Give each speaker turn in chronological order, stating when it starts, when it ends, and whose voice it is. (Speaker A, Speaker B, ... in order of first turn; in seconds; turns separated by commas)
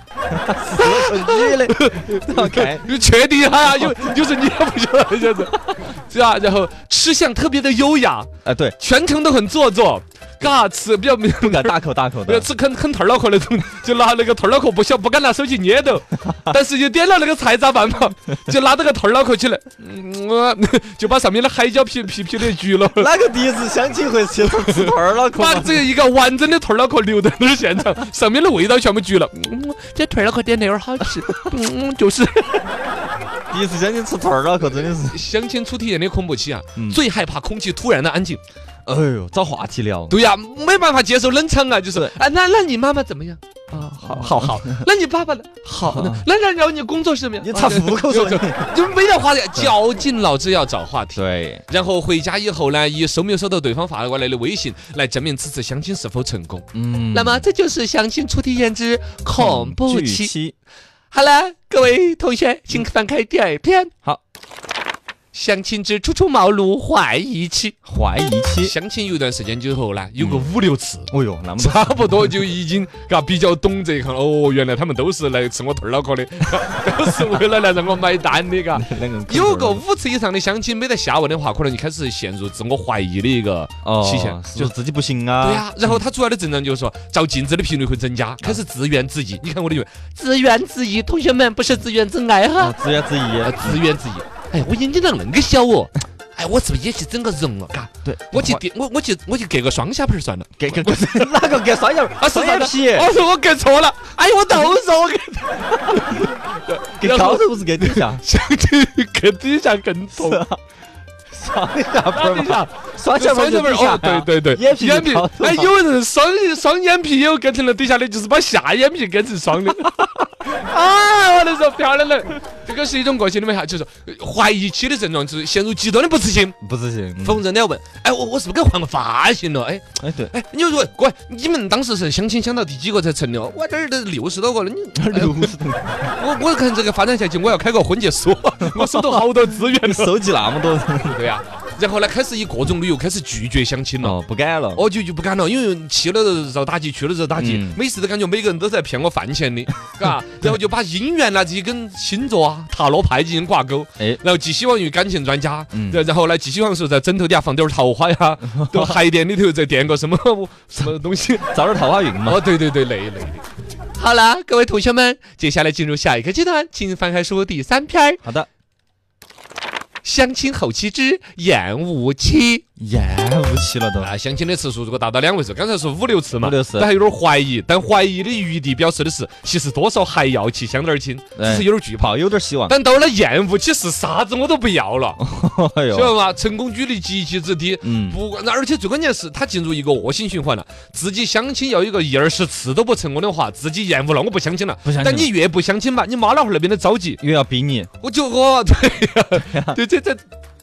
Speaker A: 0.3-2.9, Speaker B: 0.7-23.1, Speaker A: 3.7-4.0, Speaker A: 8.4-8.8, Speaker A: 11.4-12.5, Speaker A: 22.9-25.9, Speaker B: 24.5-32.7, Speaker A: 33.5-35.2, Speaker B: 34.6-38.4, Speaker A: 38.9-40.2, Speaker B: 40.1-60.3, Speaker A: 44.0-44.9, Speaker A: 45.9-46.3, Speaker A: 47.4-48.7, Speaker A: 51.1-51.6, Speaker A: 56.7-57.5, Speaker A: 59.4-60.5, Speaker B: 61.1-63.9, Speaker B: 65.3-67.8, Speaker A: 67.9-68.7, Speaker B: 68.6-84.7, Speaker A: 70.2-70.5, Speaker A: 71.1-72.4, Speaker A: 78.7-79.8, Speaker A: 83.8-86.0, Speaker B: 85.4-92.8, Speaker A: 92.6-93.8, Speaker B: 93.4-101.6, Speaker A: 98.0-98.6, Speaker A: 100.6-103.1, Speaker B: 102.2-110.4, Speaker A: 105.9-106.2, Speaker A: 107.0-108.2, Speaker A: 110.2-110.6, Speaker A: 111.3-115.8, Speaker B: 112.1-126.6, Speaker A: 126.6-127.4, Speaker B: 127.2-135.5, Speaker A: 130.0-130.3, Speaker A: 134.9-136.1, Speaker B: 136.2-140.2, Speaker A: 138.6-141.2, Speaker B: 141.0-144.2, Speaker A: 144.0-144.8, Speaker B: 144.8-161.5, Speaker A: 147.3-147.8, Speaker A: 155.7-156.0, Speaker A: 158.5-159.0, Speaker A: 161.5-162.4, Speaker B: 162.2-163.4, Speaker B: 164.0-168.2, Speaker B: 170.0-172.6, Speaker A: 172.8-174.1, Speaker B: 174.0-182.1, Speaker A: 176.4-176.9, Speaker A: 181.4-182.8, Speaker B: 182.7-185.2, Speaker A: 185.2-186.2, Speaker B: 185.9-197.2, Speaker A: 187.8-188.2, Speaker A: 194.8-195.3, Speaker A: 197.2-197.9, Speaker B: 198.0-200.2, Speaker A: 199.4-199.8